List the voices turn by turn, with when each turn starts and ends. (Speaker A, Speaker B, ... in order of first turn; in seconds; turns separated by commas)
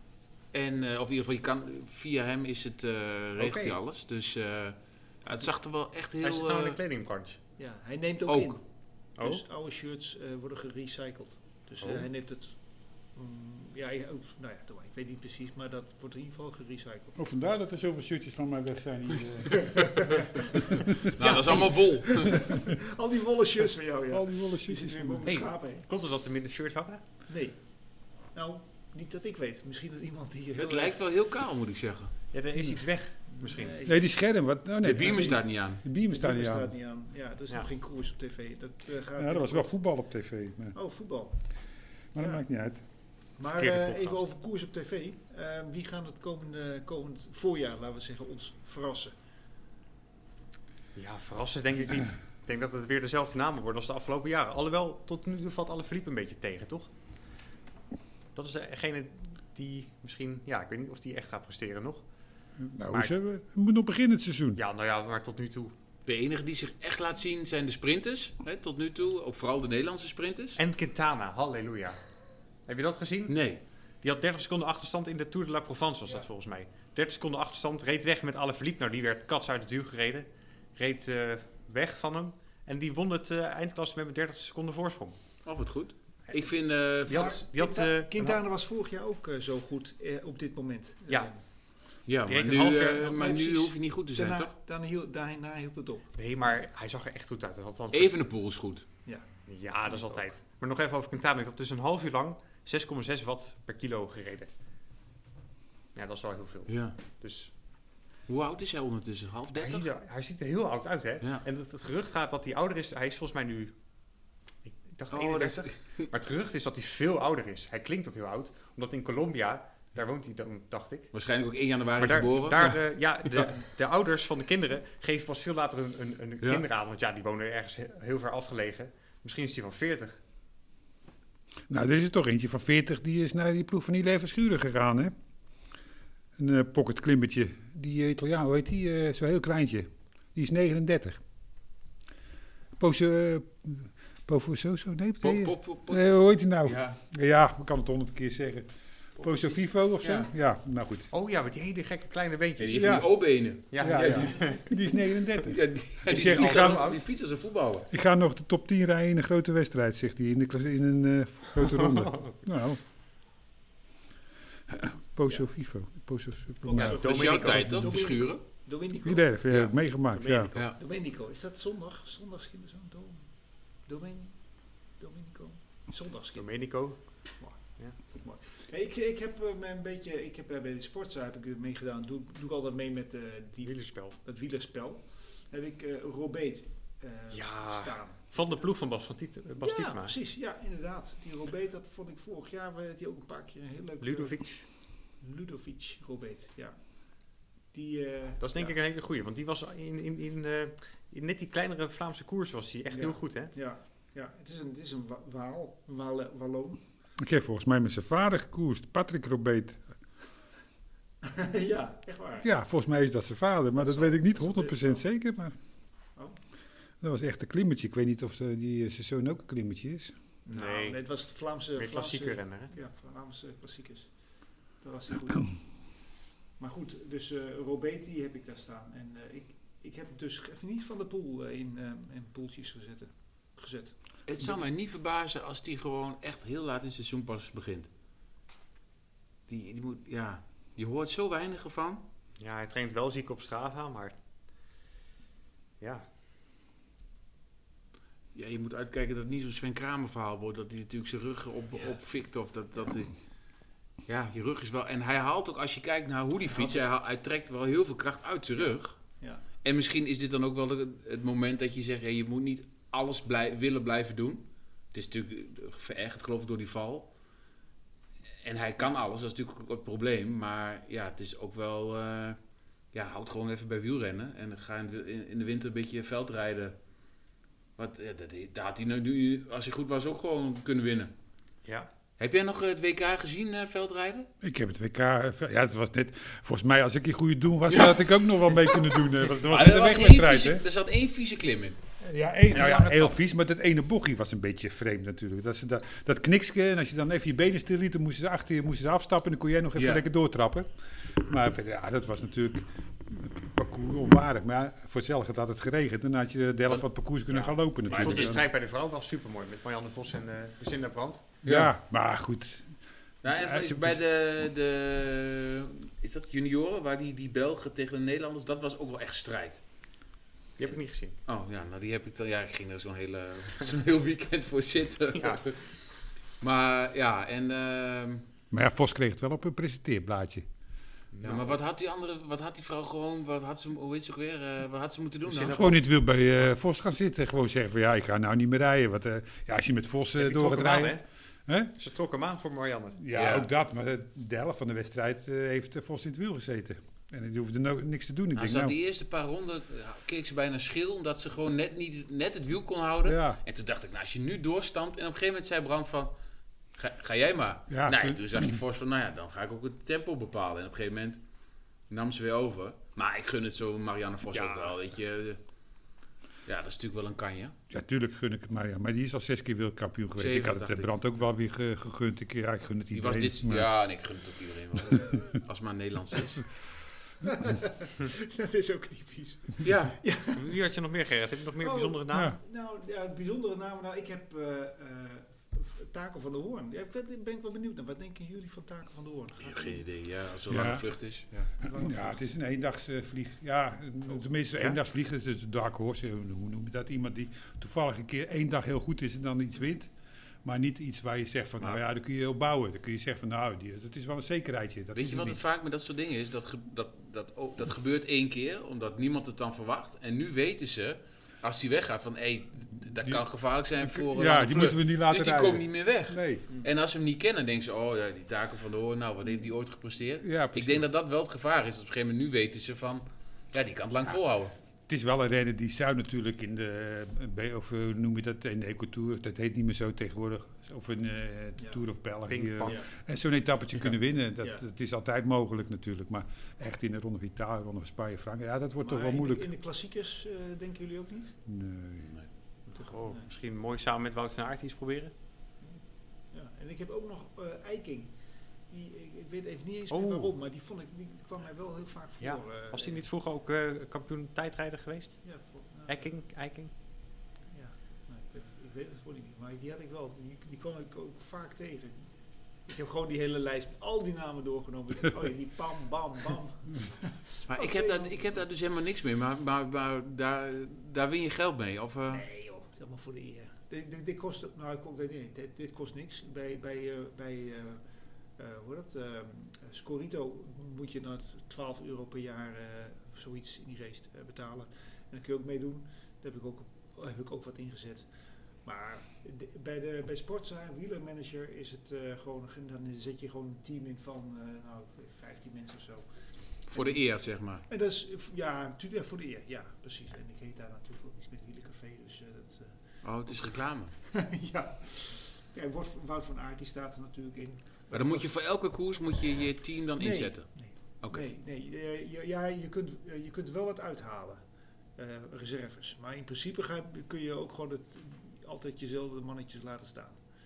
Speaker A: 0.5-6.8, Speaker B: 3.4-3.8, Speaker B: 6.2-7.4, Speaker C: 7.6-8.6, Speaker A: 8.3-8.6, Speaker B: 9.2-9.4, Speaker C: 9.2-12.6, Speaker B: 11.8-12.1, Speaker C: 13.1-17.2, Speaker D: 17.2-20.4, Speaker C: 19.7-20.4, Speaker A: 21.1-22.5, Speaker B: 21.2-21.8, Speaker C: 21.8-25.9, Speaker D: 24.1-25.3, Speaker B: 25.2-27.0, Speaker C: 27.3-31.0, Speaker A: 30.6-32.1, Speaker B: 32.3-33.8, Speaker C: 33.3-34.1, Speaker D: 33.8-36.7, Speaker A: 34.8-35.8, Speaker C: 36.0-39.8, Speaker D: 39.2-40.8, Speaker C: 40.7-41.4, Speaker D: 42.1-42.8, Speaker C: 42.2-42.4, Speaker C: 43.4-49.1, Speaker B: 43.4-44.3, Speaker B: 50.9-56.9, Speaker B: 58.3-62.0, Speaker D: 62.6-64.6, Speaker B: 64.5-65.7, Speaker A: 66.0-70.6, Speaker B: 70.6-72.0, Speaker B: 72.6-73.4, Speaker A: 73.3-73.6, Speaker B: 74.0-85.2, Speaker A: 85.4-87.4, Speaker B: 87.0-88.4, Speaker C: 87.1-91.4, Speaker A: 92.1-94.5, Speaker B: 92.2-93.4, Speaker C: 93.1-96.1, Speaker B: 96.2-98.2, Speaker A: 97.9-98.8, Speaker B: 99.5-104.5, Speaker B: 105.9-107.5, Speaker A: 106.7-106.9, Speaker A: 108.3-109.9, Speaker B: 109.5-113.8, Speaker B: 114.7-121.1, Speaker A: 115.1-116.1, Speaker A: 121.1-123.5, Speaker B: 122.0-130.2, Speaker D: 131.7-135.1, Speaker D: 136.4-141.2, Speaker D: 142.8-148.7, Speaker A: 145.2-147.0, Speaker A: 149.2-150.3, Speaker D: 149.2-151.1, Speaker B: 151.1-154.6, Speaker A: 152.6-154.7, Speaker D: 152.8-153.1, Speaker D: 153.8-156.8, Speaker A: 155.4-157.9, Speaker B: 156.1-157.0, Speaker D: 157.9-162.8, Speaker B: 161.6-162.4, Speaker D: 164.7-167.0, Speaker C: 166.6-169.3, Speaker A: 166.7-168.4, Speaker B: 166.9-167.9, Speaker D: 169.0-170.5, Speaker A: 169.5-169.7, Speaker B: 170.1-170.6, Speaker C: 170.6-173.3, Speaker C: 173.8-174.4, Speaker C: 175.0-176.5, Speaker B: 176.3-177.0, Speaker C: 177.4-188.6, Speaker B: 183.6-184.2, Speaker B: 187.3-190.2, Speaker C: 189.6-194.4, Speaker B: 194.0-194.7, Speaker C: 195.2-196.8, Speaker C: 197.7-198.8, Speaker B: 198.4-203.5, Speaker C: 202.9-206.8, Speaker D: 207.2-209.8, Speaker C: 211.2-212.5, Speaker D: 212.4-215.5, Speaker C: 213.8-215.0, Speaker D: 217.0-220.1, Speaker C: 220.4-224.2, Speaker B: 220.5-221.0, Speaker B: 221.7-222.7, Speaker C: 224.8-225.6, Speaker C: 226.6-234.6, Speaker A: 234.3-237.9, Speaker A: 239.5-242.0, Speaker B: 242.4-244.2, Speaker B: 245.8-246.0, Speaker A: 248.3-253.1, Speaker A: 254.1-259.0, Speaker C: 256.5-256.9, Speaker A: 259.6-267.1, Speaker A: 268.4-272.4, Speaker A: 272.9-276.8, Speaker A: 277.8-281.1, Speaker A: 282.2-284.3, Speaker D: 284.4-290.6, Speaker A: 287.7-291.8, Speaker D: 292.0-308.4, Speaker A: 292.5-293.1, Speaker A: 299.8-300.0, Speaker A: 306.7-308.4, Speaker B: 307.9-311.2, Speaker D: 311.4-312.7, Speaker A: 313.2-319.6, Speaker D: 313.2-314.0, Speaker B: 320.6-321.1, Speaker A: 321.2-325.6, Speaker B: 325.1-325.4, Speaker A: 326.4-328.3, Speaker D: 328.5-330.4, Speaker A: 331.1-335.7, Speaker B: 331.2-331.6, Speaker B: 335.2-335.8, Speaker D: 335.5-341.7, Speaker B: 340.1-341.0, Speaker B: 341.8-343.0, Speaker D: 343.0-348.8, Speaker A: 343.1-343.5, Speaker A: 348.3-356.1, Speaker D: 353.0-353.4, Speaker A: 356.7-361.2, Speaker D: 357.7-358.5, Speaker A: 361.9-365.4, Speaker B: 364.3-364.8, Speaker A: 366.4-367.6, Speaker D: 367.7-373.7, Speaker A: 370.2-370.9, Speaker A: 372.9-376.5, Speaker D: 374.9-375.2, Speaker C: 377.2-380.5, Speaker A: 379.6-380.0, Speaker B: 380.3-382.4, Speaker C: 381.6-389.9, Speaker D: 382.1-382.4, Speaker A: 389.4-391.4, Speaker D: 390.5-390.8, Speaker C: 391.6-392.3, Speaker D: 391.6-399.9, Speaker D: 400.4-405.4, Speaker A: 404.9-424.5, Speaker D: 413.8-416.4, Speaker D: 420.2-420.9, Speaker D: 424.9-439.5, Speaker C: 431.6-431.8, Speaker B: 432.2-432.9, Speaker C: 438.8-441.4, Speaker D: 441.5-442.1, Speaker B: 442.7-445.1, Speaker C: 442.7-443.2, Speaker C: 446.3-448.1, Speaker C: 448.7-453.0, Speaker B: 449.9-450.3, Speaker B: 452.2-455.3, Speaker C: 455.2-456.1, Speaker B: 455.9-456.7, Speaker C: 457.5-462.1, Speaker C: 462.6-468.4, Speaker A: 467.4-472.2, Speaker C: 472.1-477.8, Speaker C: 478.4-488.1, Speaker C: 488.6-496.1, Speaker A: 496.7-497.6, Speaker C: 496.7-497.0, Speaker C: 497.7-502.8, Speaker A: 503.0-503.9, Speaker C: 504.1-508.3, Speaker A: 507.9-511.2, Speaker C: 510.0-514.4, Speaker C: 515.0-520.2